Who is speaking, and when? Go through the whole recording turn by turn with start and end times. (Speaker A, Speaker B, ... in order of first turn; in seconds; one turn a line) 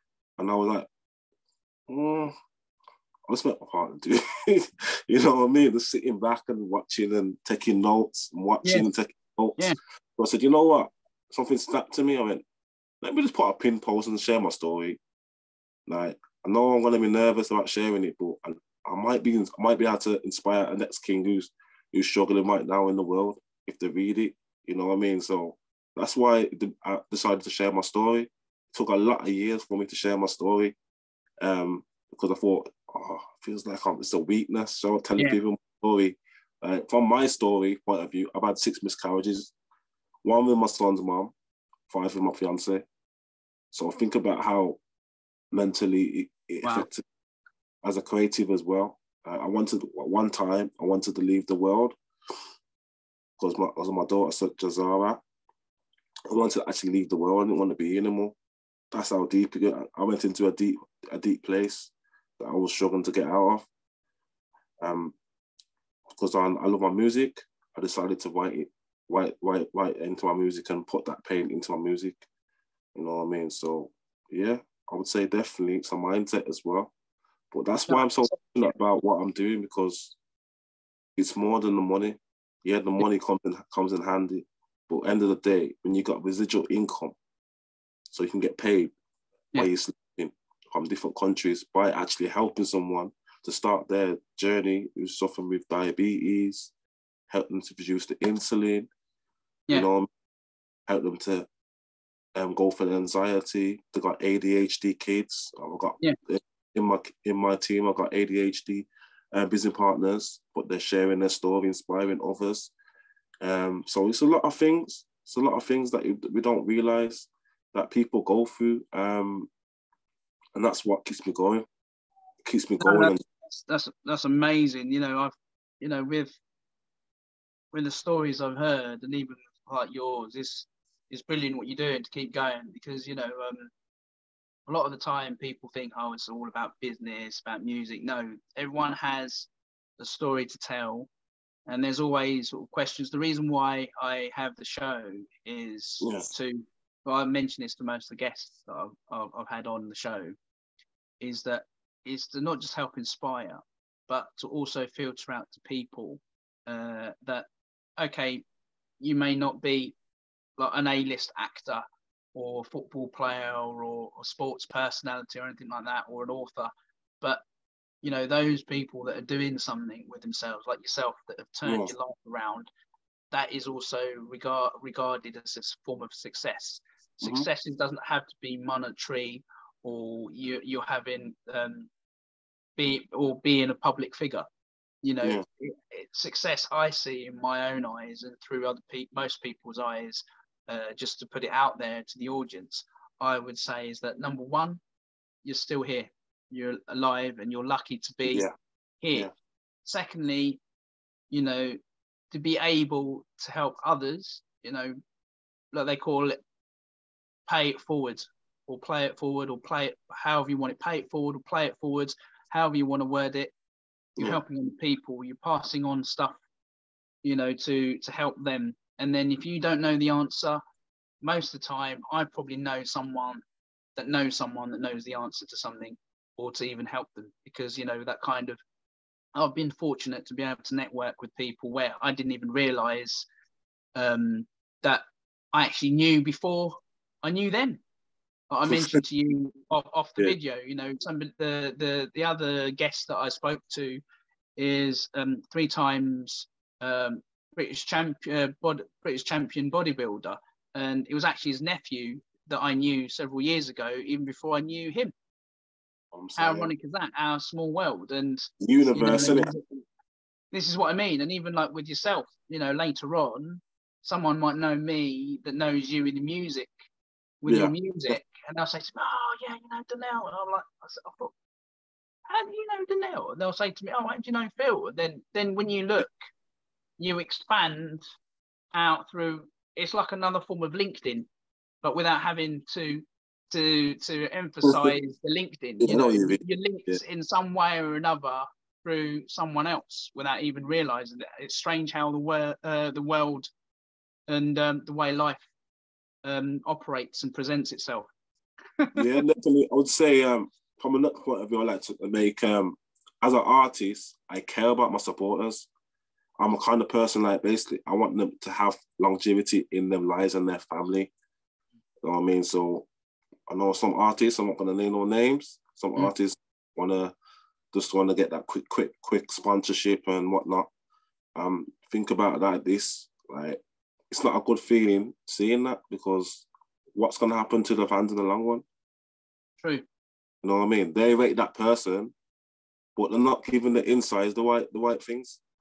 Speaker A: 0.4-0.9
Speaker A: 1.9-2.3
Speaker A: 3.3-12.4
Speaker A: 13.0-15.0
Speaker A: 15.9-30.8
Speaker A: 31.4-39.5
Speaker A: 40.2-41.3
Speaker A: 41.9-42.9
Speaker A: 43.7-44.8
Speaker A: 45.5-47.0
Speaker A: 47.8-52.0
Speaker A: 53.4-55.2
Speaker A: 56.3-58.4
Speaker A: 58.9-63.7
Speaker A: 64.8-65.2
Speaker A: 66.1-72.2
Speaker A: 73.0-76.9
Speaker A: 77.5-80.2
Speaker B: 77.9-78.3
Speaker A: 81.2-87.2
Speaker A: 88.1-88.9
Speaker A: 89.6-96.7
Speaker A: 97.3-98.9
Speaker A: 99.7-100.1
Speaker A: 100.9-101.5
Speaker A: 102.3-112.7
Speaker A: 113.4-119.5
Speaker A: 120.5-121.7
Speaker A: 122.4-123.2
Speaker B: 122.8-126.4
Speaker B: 127.7-133.7
Speaker B: 134.7-141.1
Speaker B: 141.7-150.4
Speaker A: 146.0-146.3
Speaker B: 151.2-157.5
Speaker B: 158.0-158.4
Speaker B: 159.0-159.9
Speaker B: 160.6-161.8
Speaker B: 162.3-166.7
Speaker B: 168.0-172.7
Speaker A: 171.7-171.9
Speaker B: 173.3-181.9
Speaker A: 177.2-177.5
Speaker B: 182.8-184.5
Speaker B: 185.0-194.8
Speaker B: 195.4-198.5
Speaker B: 199.0-199.3
Speaker B: 199.8-200.6
Speaker B: 201.3-201.8
Speaker B: 202.3-205.0
Speaker B: 205.7-206.4
Speaker B: 207.5-213.5
Speaker B: 214.2-216.4
Speaker B: 217.2-220.6
Speaker B: 221.2-223.4
Speaker B: 224.0-228.6
Speaker B: 229.3-233.3
Speaker B: 233.9-237.8
Speaker B: 238.5-244.0
Speaker A: 238.7-239.0
Speaker B: 244.6-255.1
Speaker A: 256.1-256.7
Speaker B: 256.4-259.8
Speaker A: 258.6-259.5
Speaker B: 260.5-266.7
Speaker B: 267.4-271.3
Speaker A: 267.5-267.7
Speaker B: 272.3-276.1
Speaker B: 277.0-278.0
Speaker B: 278.7-281.3
Speaker B: 281.8-293.5
Speaker A: 284.6-284.9
Speaker A: 285.8-287.0
Speaker B: 294.3-295.4
Speaker B: 296.2-298.1
Speaker B: 298.8-299.2
Speaker A: 299.0-305.7
Speaker A: 306.4-311.1
Speaker A: 312.0-312.9
Speaker A: 313.5-317.1
Speaker A: 317.7-320.7
Speaker A: 321.4-328.6
Speaker A: 330.4-332.1
Speaker A: 333.0-335.4